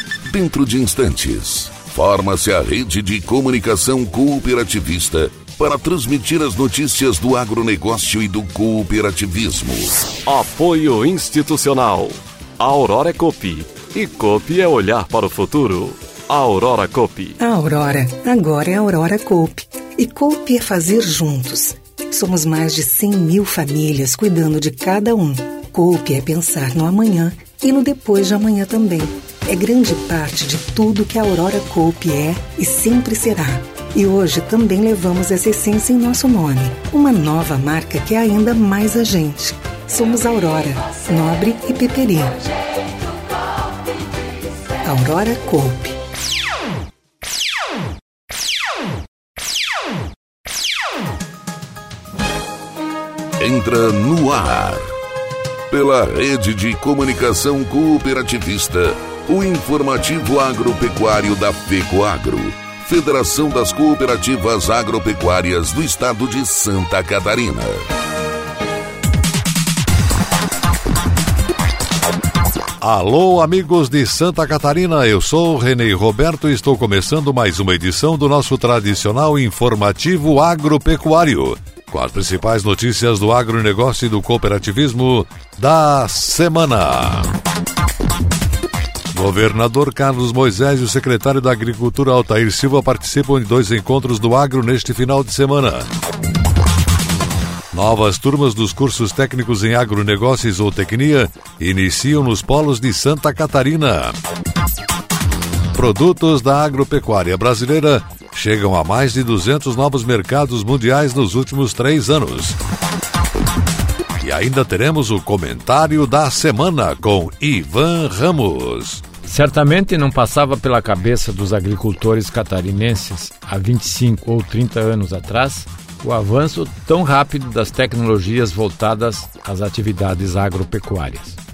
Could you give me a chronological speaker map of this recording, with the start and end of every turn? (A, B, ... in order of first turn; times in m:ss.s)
0:00.2-0:10.0 A
0:10.2-0:17.4 B
0:17.4-0:42.5 C
0:44.8-0:46.0 C
0:53.4-0:54.9 A
0:55.7-1:07.8 A
1:12.8-1:27.3 D
1:29.1-1:35.9 D
1:37.7-1:44.1 D
1:45.7-1:52.6 D
1:54.2-1:59.0 D
1:59.2-2:11.4 E